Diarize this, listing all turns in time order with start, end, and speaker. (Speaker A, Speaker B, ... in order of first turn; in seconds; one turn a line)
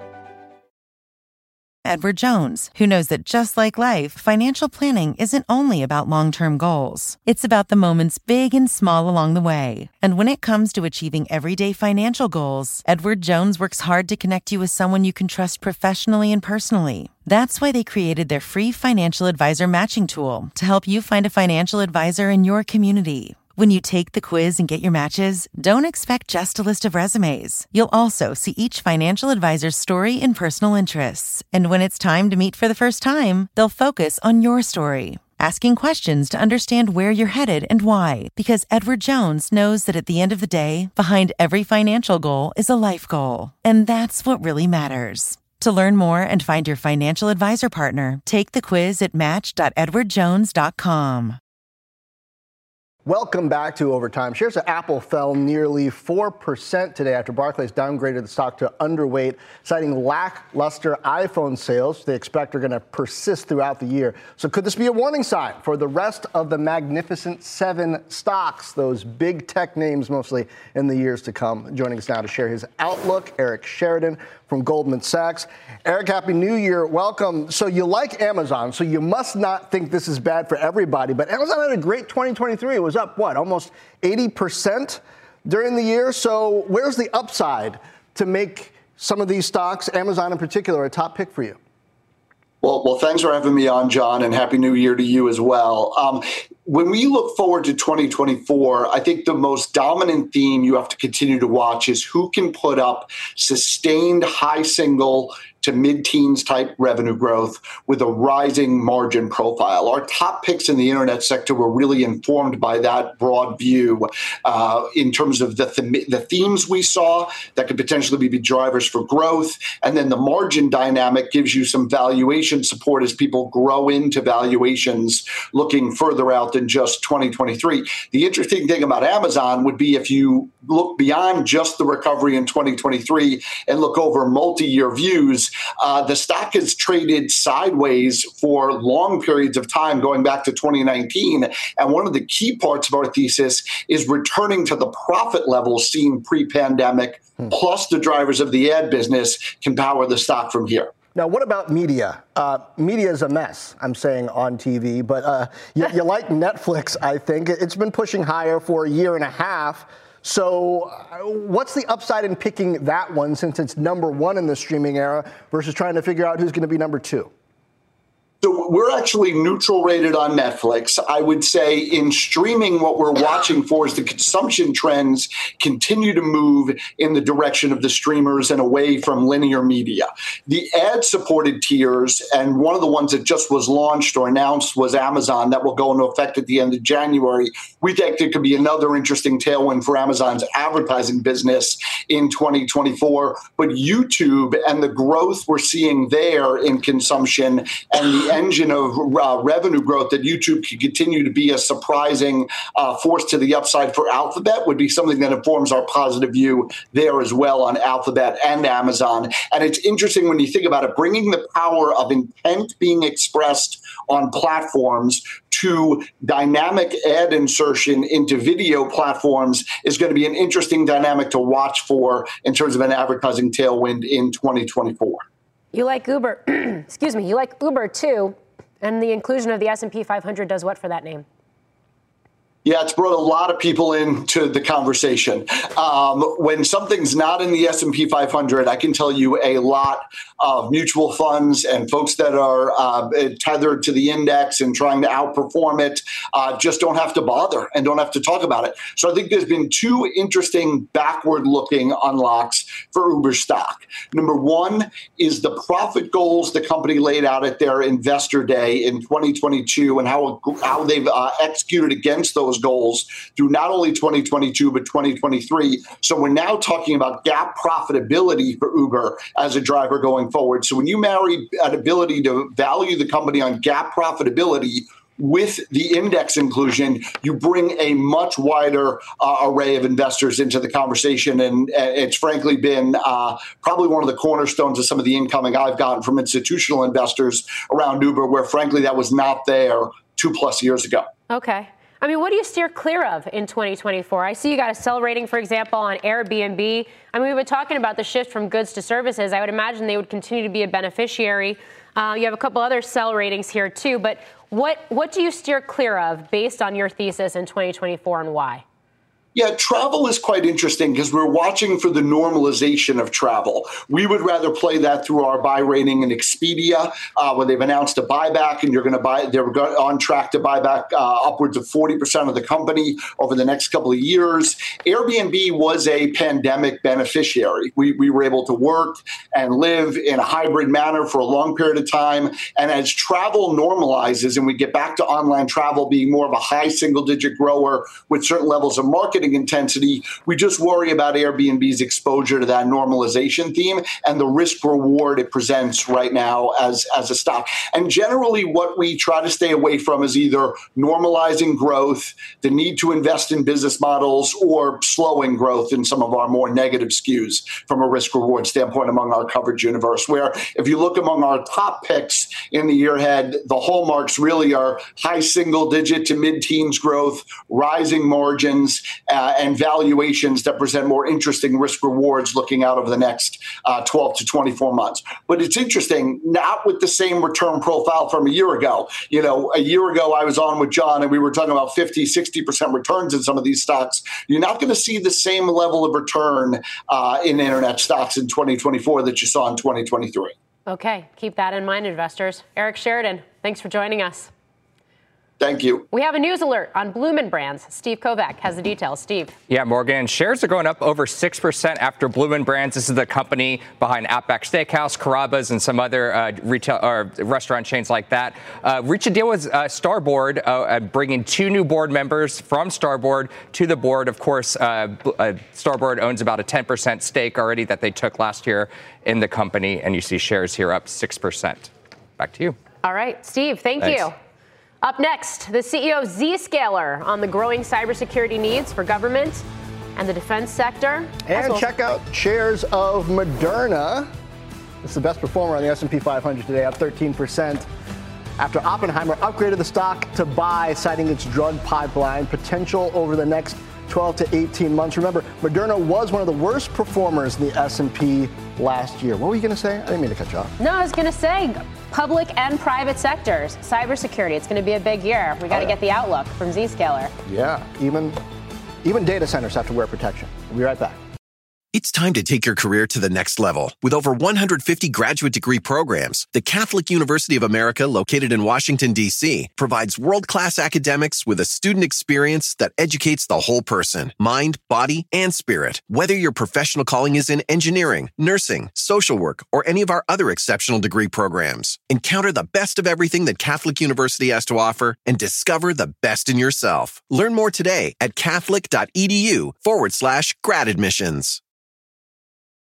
Speaker A: 1.9-51.4
Speaker B: 53.0-91.6
Speaker C: 92.6-150.9
Speaker B: 151.2-167.3
Speaker C: 168.4-225.2
Speaker D: 225.7-231.3
Speaker C: 232.6-291.1
Speaker D: 291.3-308.6
Speaker C: 309.4-390.3
Speaker D: 390.7-394.3
Speaker C: 395.4-395.9
Speaker D: 395.9-399.3
Speaker E: 399.5-422.6
Speaker D: 422.8-424.1
Speaker E: 423.8-424.1
Speaker D: 424.8-429.4
Speaker D: 430.0-431.7
Speaker B: 431.3-434.1
Speaker B: 434.8-437.7
Speaker B: 438.4-450.5
Speaker D: 450.6-457.1
Speaker B: 457.3-458.2
Speaker B: 458.8-461.0
Speaker F: 461.7-491.4